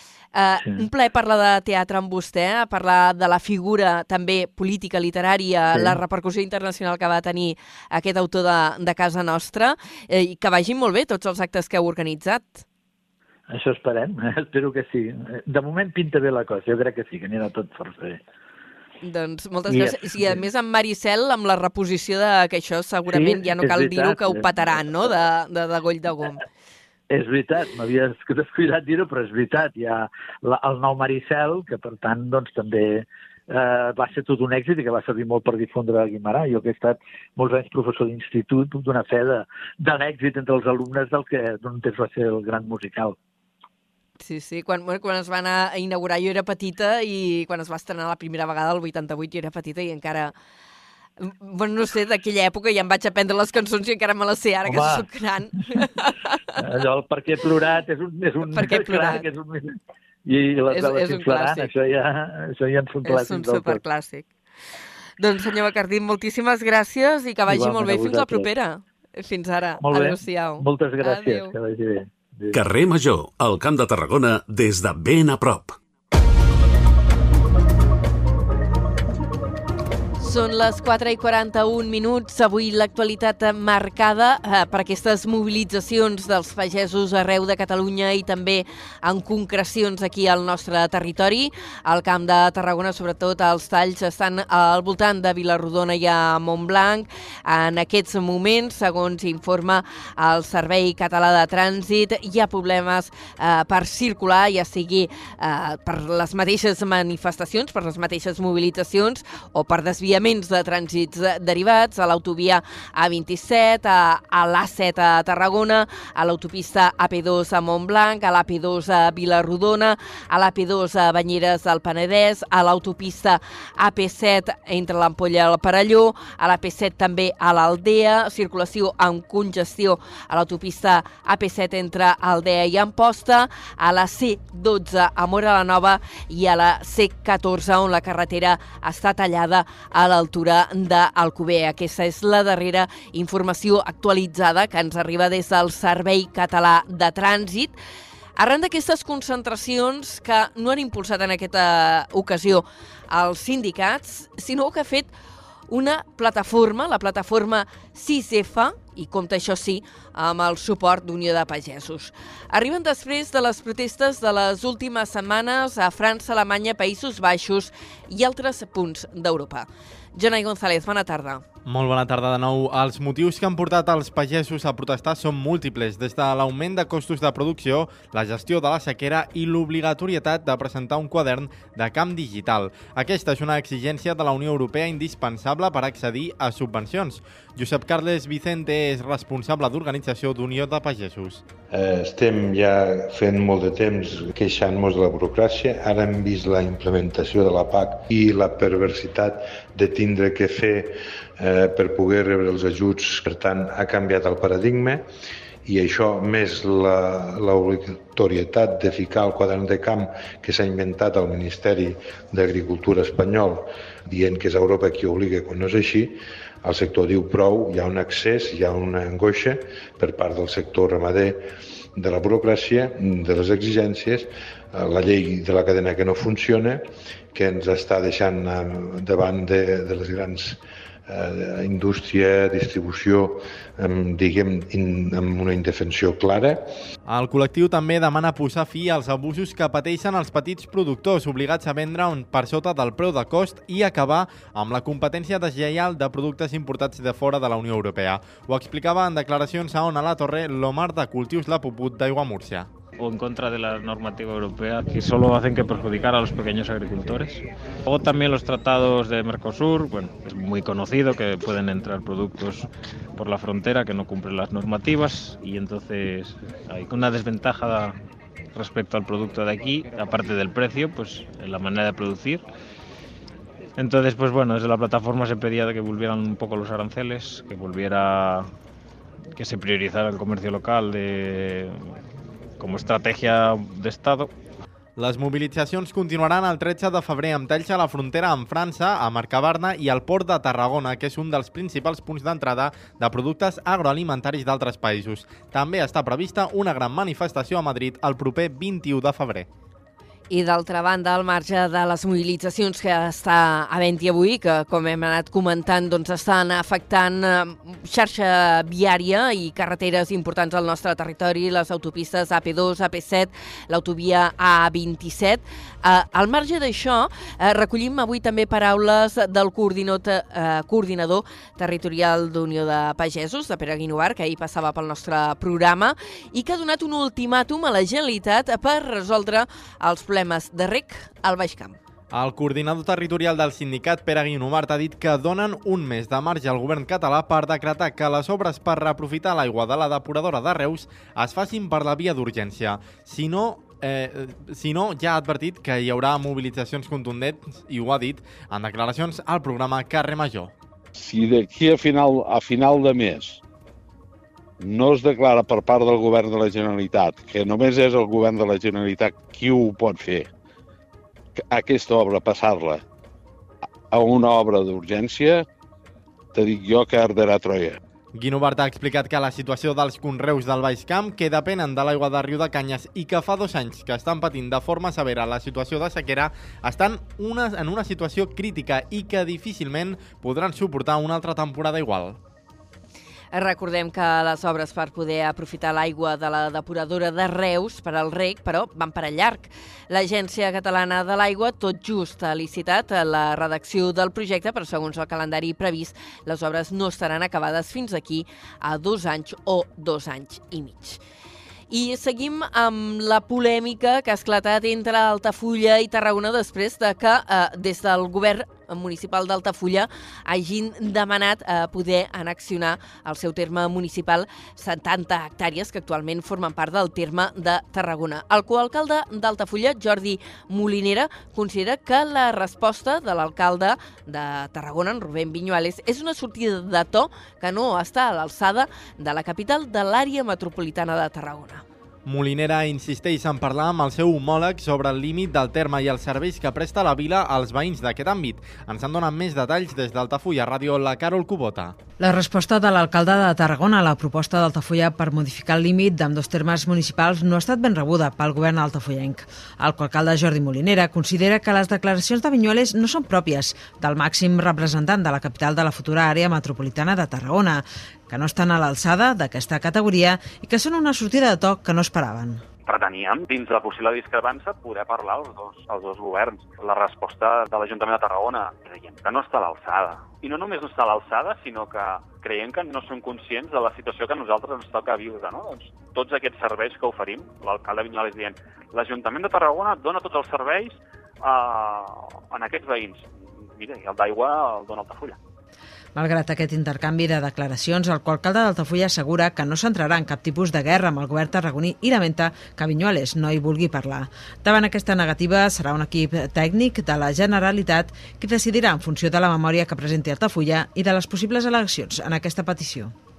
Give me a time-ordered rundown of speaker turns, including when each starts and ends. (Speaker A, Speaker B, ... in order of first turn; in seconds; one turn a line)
Speaker A: 0.3-12.6
Speaker B: 5.7-6.0
Speaker B: 13.5-18.2
Speaker A: 19.0-26.4
Speaker B: 19.7-20.4
Speaker B: 23.1-24.5
Speaker B: 27.1-43.2
Speaker A: 44.2-50.3
Speaker A: 51.2-56.4
Speaker B: 54.6-55.0
Speaker B: 56.5-63.8
Speaker A: 58.5-59.2
Speaker A: 60.7-61.7
Speaker A: 63.0-64.3
Speaker A: 65.2-71.5
Speaker B: 67.5-68.5
Speaker B: 69.8-72.6
Speaker C: 72.5-75.8
Speaker A: 80.2-147.7
Speaker A: 148.3-155.1
Speaker A: 155.7-171.4
Speaker D: 171.7-191.4
Speaker E: 191.7-205.1
Speaker E: 205.6-236.7
Speaker D: 237.1-252.7
Speaker F: 253.0-267.9
Speaker F: 268.5-272.4
Speaker F: 273.8-278.5
Speaker F: 279.3-281.8
Speaker F: 282.6-284.3
Speaker D: 285.0-299.5
Speaker A: 300.3-331.8
Speaker D: 332.1-350.5
Speaker G: 350.9-353.4
Speaker G: 354.6-360.3
Speaker G: 361.4-362.8
Speaker G: 363.9-365.4
Speaker G: 366.3-367.8
Speaker D: 368.1-382.2
Speaker A: 383.3-401.0
Speaker A: 401.7-431.6
Speaker D: 432.1-441.8
Speaker H: 442.0-462.4
Speaker I: 462.6-485.2
Speaker H: 485.9-502.9